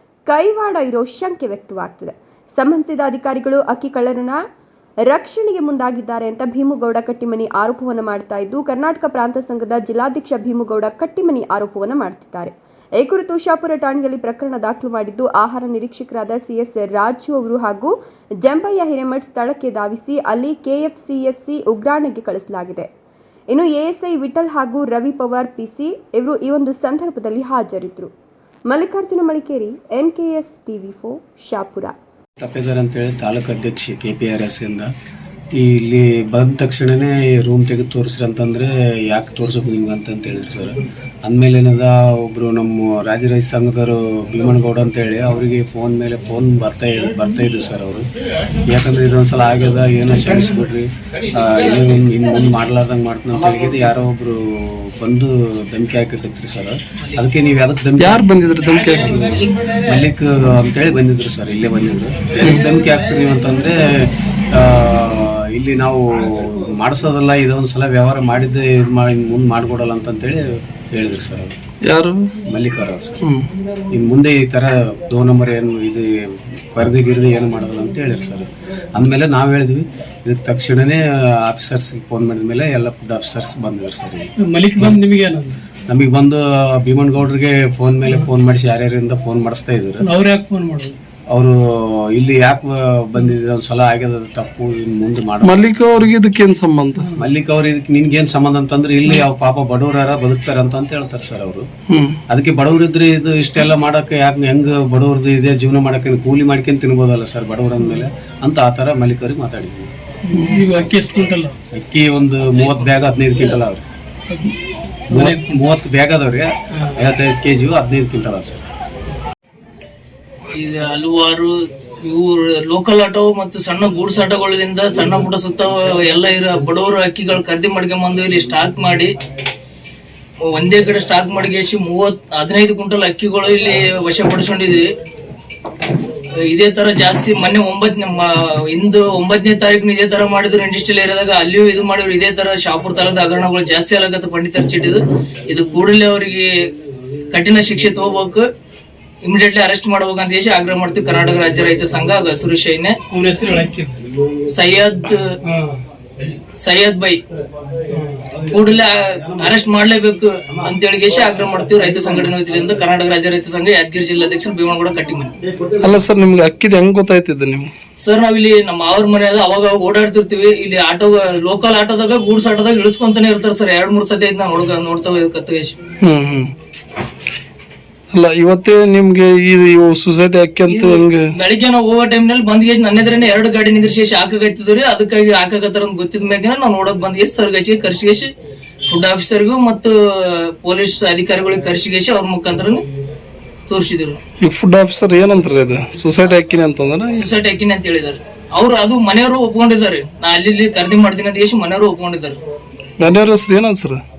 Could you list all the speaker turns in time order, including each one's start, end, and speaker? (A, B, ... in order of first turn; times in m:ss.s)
0:00.3-0:04.4 A
0:05.1-0:22.9 A
0:23.5-0:28.1 A
0:28.7-0:31.9 A
0:32.4-0:34.9 B
0:35.6-0:48.1 B
0:48.7-0:58.3 B
0:58.0-0:59.2 C
0:59.0-1:11.6 B
1:11.8-1:12.4 C
1:12.4-1:13.2 B
1:13.2-1:13.5 C
1:13.9-1:16.1 B
1:16.7-1:25.0 B
1:24.4-1:25.6 D
1:25.9-1:30.1 B
1:30.0-1:31.0 D
1:31.3-1:35.7 B
1:35.4-1:37.1 C
1:37.0-1:37.2 D
1:37.1-1:41.7 B
1:41.9-1:42.2 C
1:42.3-1:49.9 B
1:50.3-1:51.6 D
1:50.3-1:50.6 C
1:51.7-1:53.8 B
1:52.5-1:52.9 E
1:54.3-1:54.6 D
1:55.1-1:55.6 D
1:55.1-1:58.6 B
2:00.6-2:09.2 E
2:10.4-2:14.9 E
2:16.5-2:26.7 E
2:27.3-2:28.5 E
2:29.2-2:33.0 E
2:33.1-2:34.0 D
2:34.5-2:35.3 E
2:35.4-2:35.8 D
2:36.6-2:37.2 E
2:37.9-2:38.3 D
2:38.5-2:45.3 E
2:45.8-2:47.7 C
2:48.0-2:55.8 E
2:56.0-2:56.5 C
2:58.1-3:01.3 C
3:00.7-3:08.3 E
3:08.9-3:12.8 E
3:13.7-3:14.2 E
3:14.4-3:17.3 C
3:17.1-3:22.4 E
3:23.0-3:24.0 C